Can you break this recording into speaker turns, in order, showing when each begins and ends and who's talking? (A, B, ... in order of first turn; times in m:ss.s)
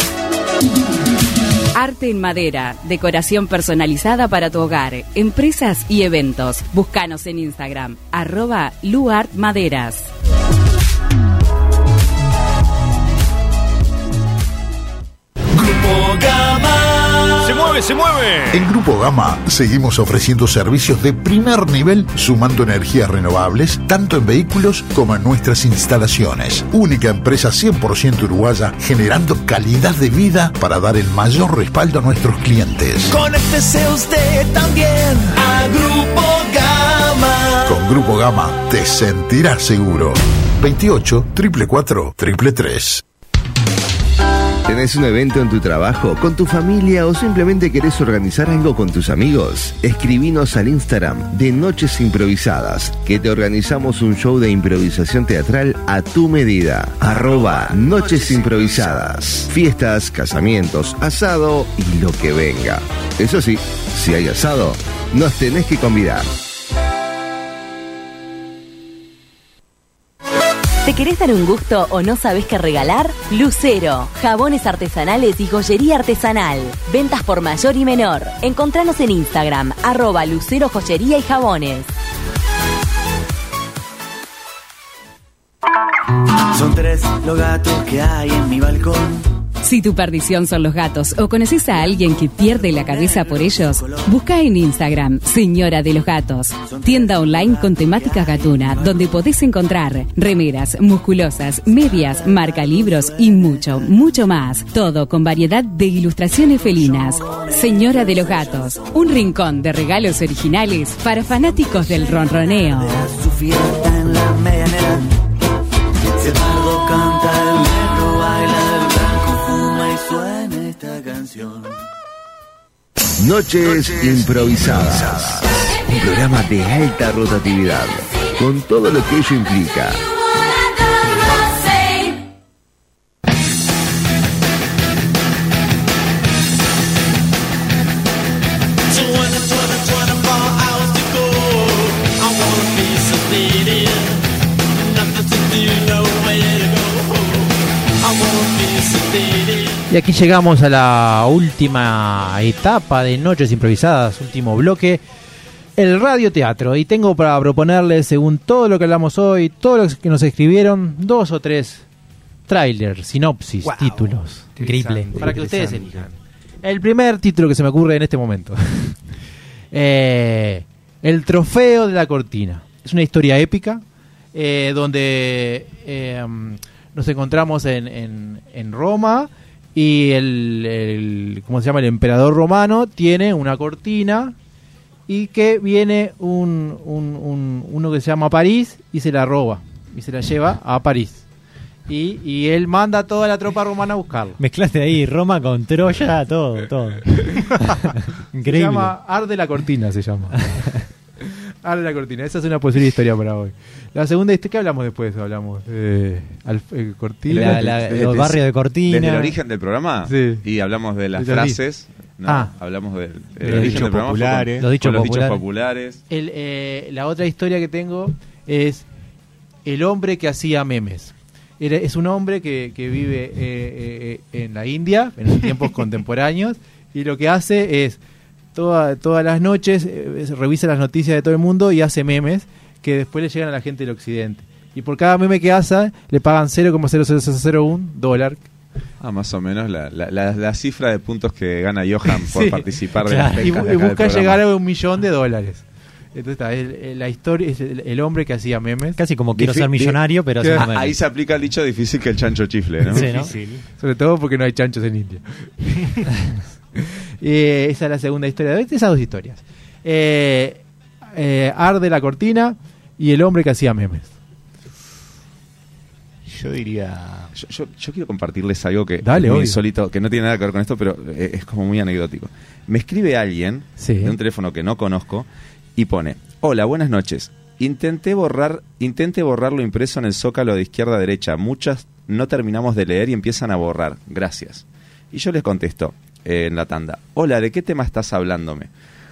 0:01.8-0:10.1 A
0:15.6-0:18.6 B
0:18.5-0:33.1 C
0:33.1-0:37.7 B
0:37.6-0:43.0 C
0:44.6-1:06.3 D
1:10.8-1:21.9 E
1:26.5-1:29.3 F
1:29.6-1:53.0 A
1:31.8-1:34.1 F
1:36.6-1:39.1 F
1:46.8-1:48.6 F
1:51.5-1:55.2 F
1:56.2-2:01.8 F
2:03.2-2:10.0 D
2:19.2-2:24.1 F
2:25.0-2:27.2 F
2:28.1-2:29.7 F
2:29.9-2:35.0 G
2:35.8-2:41.8 G
2:42.5-2:44.5 G
2:43.6-2:44.0 H
2:44.6-2:46.0 I
2:44.6-2:45.4 H
2:45.2-2:49.0 G
2:49.7-2:53.8 G
2:54.3-3:04.3 G
3:05.1-3:11.2 G
3:11.9-3:14.4 G
3:14.4-3:18.9 H
3:18.4-3:20.7 G
3:21.6-3:27.7 G
3:27.3-3:29.3 H
3:27.3-3:36.0 J
3:30.1-3:30.4 G
3:31.2-3:31.6 G
3:32.2-3:32.5 G
3:33.4-3:34.6 I
3:33.5-3:33.8 H
3:34.6-3:35.4 H
3:36.1-3:38.8 G
3:39.6-3:48.0 G
3:48.5-3:58.4 G
3:59.0-4:04.4 J
4:02.2-4:02.6 G
4:03.0-4:03.6 H
4:03.4-4:09.0 G
4:09.0-4:11.0 H
4:09.4-4:13.1 J
4:12.9-4:13.6 I
4:12.9-4:13.3 H
4:13.8-4:16.2 G
4:16.8-4:20.6 G
4:21.1-4:24.1 G
4:26.2-4:27.3 I
4:27.3-4:48.7 J
4:29.0-4:29.6 G
4:33.8-4:34.2 G